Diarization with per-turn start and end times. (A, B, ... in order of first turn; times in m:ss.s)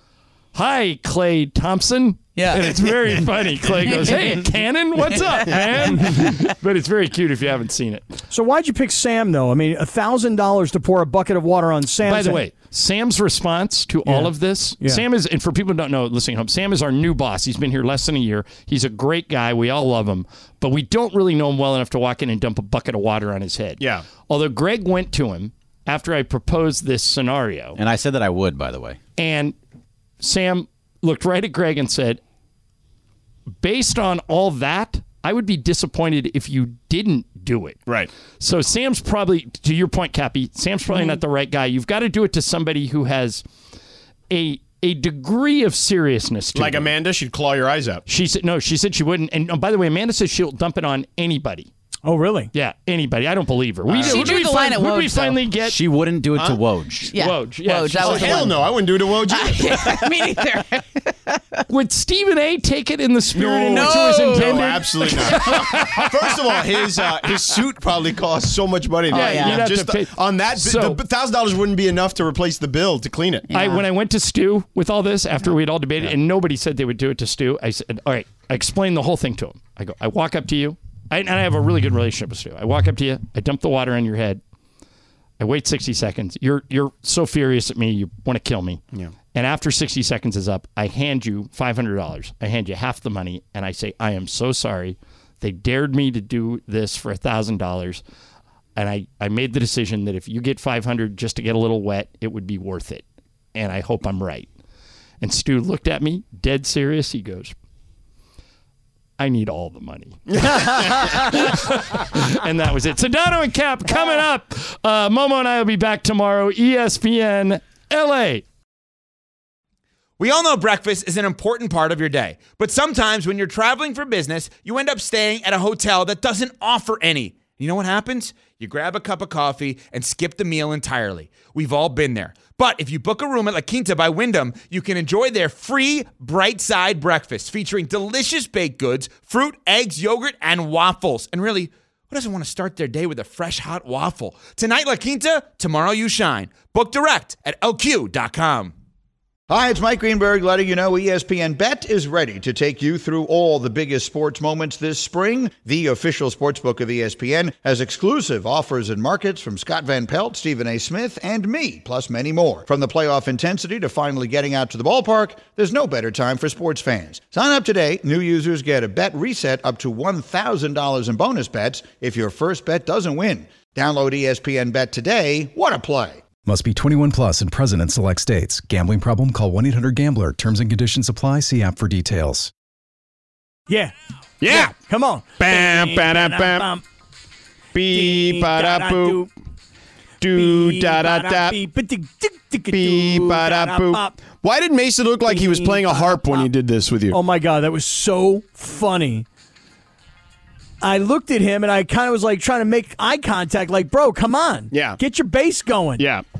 0:00.5-0:08.1 A
0:02.4-0:04.4 B
0:05.1-0:05.6 B
0:08.3-0:12.4 C
0:12.0-0:27.8 A
0:14.0-0:15.0 C
0:23.8-0:24.0 D
0:27.8-0:29.0 E
0:29.2-0:29.6 A
0:30.2-0:32.2 A
0:33.6-0:37.8 A
0:38.4-0:43.4 A
0:44.3-0:46.9 A
0:46.5-0:48.0 D
0:48.0-0:51.7 A
0:52.0-0:52.5 C
0:52.5-0:55.8 A
0:53.9-0:54.2 D
0:53.9-0:55.4 B
0:55.6-0:57.1 E
0:56.4-0:56.6 D
0:57.1-1:01.6 B
0:57.1-0:58.5 A
0:58.0-1:00.0 D
1:01.7-1:06.4 A
1:03.3-1:13.5 D
1:03.7-1:06.1 B
1:09.1-1:09.7 B
1:09.1-1:11.0 A
1:13.5-1:13.8 B
1:13.5-1:24.4 A
1:25.4-1:28.8 A
1:29.3-1:38.0 A
1:38.8-1:44.5 A
1:45.2-1:47.5 A
1:49.2-1:58.4 A
1:50.3-1:51.2 D
2:00.2-2:28.7 F
2:29.5-2:56.2 G
2:56.4-3:02.5 H
3:04.4-3:04.8 D
3:04.4-3:06.8 C
3:05.4-3:06.7 D
3:07.7-3:09.2 D
3:07.9-3:09.3 C
3:10.2-3:11.6 D
3:10.2-3:14.2 C
3:12.7-3:17.2 D
3:15.3-3:16.5 C
3:17.1-3:19.2 C
3:20.8-3:26.1 C
3:24.7-3:25.0 D
3:26.0-3:26.2 D